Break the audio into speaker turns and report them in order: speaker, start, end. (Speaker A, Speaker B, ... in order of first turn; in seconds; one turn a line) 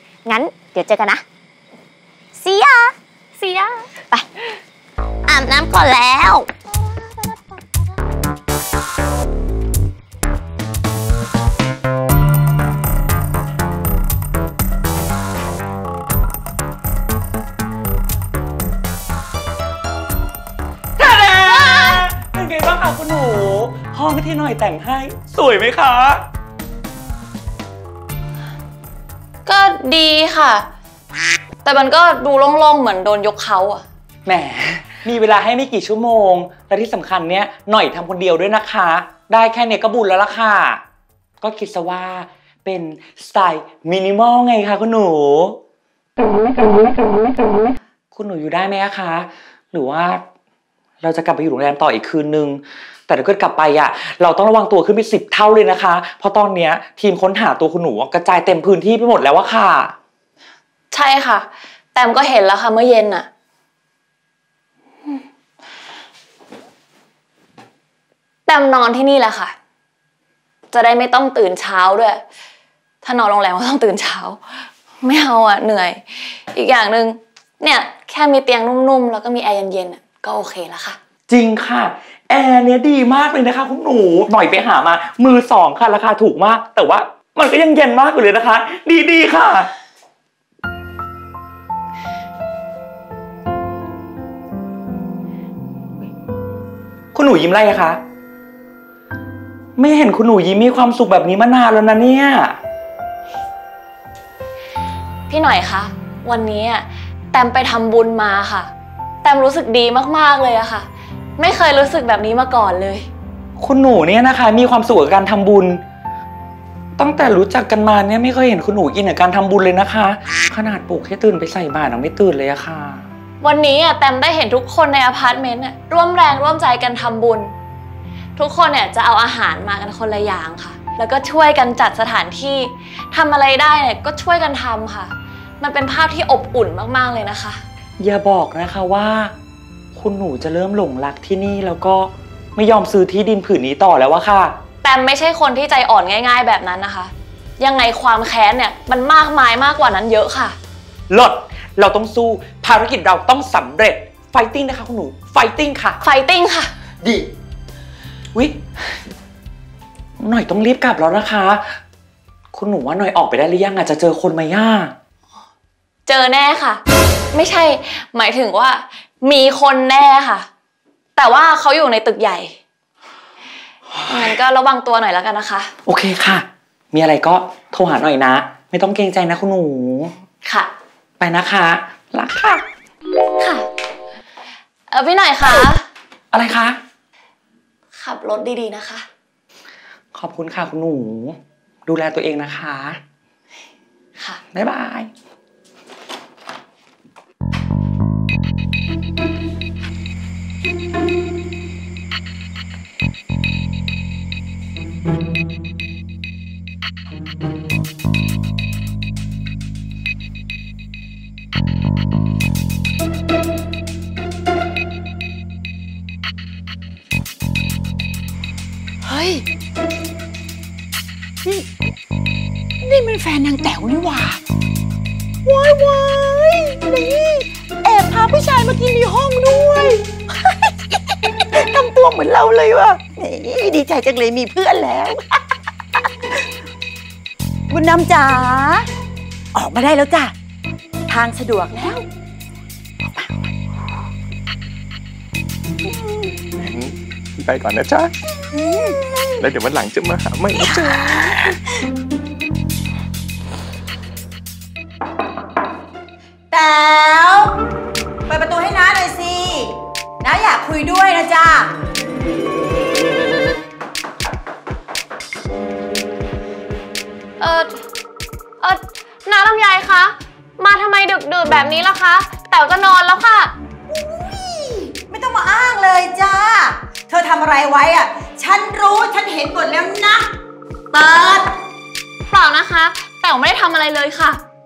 Speaker A: 0.3-1.2
Speaker A: 2.4-2.9
Speaker B: 3.4-3.9
Speaker A: 5.3-6.5
Speaker C: 21.0-26.2
Speaker B: 29.4-30.7
Speaker B: 31.6-33.9
Speaker C: 34.3-40.8
Speaker C: 41.4-45.6
Speaker C: 48.1-50.2
Speaker C: 51.0-59.9
Speaker B: 60.9-63.3
Speaker B: 68.5-69.5
Speaker B: 70.7-72.2
Speaker B: 73.0-74.4
Speaker B: 75.0-81.0
Speaker C: 81.3-89.7
Speaker C: 97.1-98.0
Speaker C: 99.8-102.6
Speaker B: 105.3-108.7
Speaker B: 109.2-110.9
Speaker B: 111.4-113.1
Speaker C: 113.6-115.8
Speaker C: 117.0-123.1
Speaker B: 123.4-127.5
Speaker B: 128.4-137.6
Speaker C: 138.0-139.3
Speaker C: 139.9-144.6
Speaker B: 144.8-150.6
Speaker C: 151.1-156.0
Speaker B: 156.0-156.7
Speaker C: 157.0-157.3
Speaker C: 158.3-159.0
Speaker C: 160.2-161.8
Speaker C: 162.5-164.9
Speaker B: 166.1-166.8
Speaker B: 167.3-170.5
Speaker B: 171.2-172.5
Speaker B: 174.1-175.7
Speaker C: 175.9-180.1
Speaker B: 180.4-180.7
Speaker C: 181.2-182.6
Speaker B: 183.4-183.7
Speaker B: 184.9-185.8
Speaker C: 186.3-186.8
Speaker B: 187.9-189.0
Speaker C: 190.1-193.0
Speaker C: 194.5-195.1
Speaker D: 219.0-219.4
Speaker D: 222.8-224.4
Speaker D: 225.4-230.0
Speaker D: 231.0-235.4
Speaker D: 237.7-238.9
Speaker D: 239.5-240.3
Speaker D: 241.1-242.1
Speaker D: 243.2-243.5
Speaker C: 247.4-248.0
Speaker E: 247.4-248.1
Speaker D: 248.5-249.4
Speaker E: 249.4-250.7
Speaker D: 250.5-251.4
Speaker C: 250.6-250.9
Speaker D: 256.5-257.6
Speaker D: 258.3-261.7
Speaker B: 267.4-267.8
Speaker B: 268.6-273.5
Speaker D: 273.9-280.3
Speaker D: 280.9-281.4
Speaker B: 282.3-284.4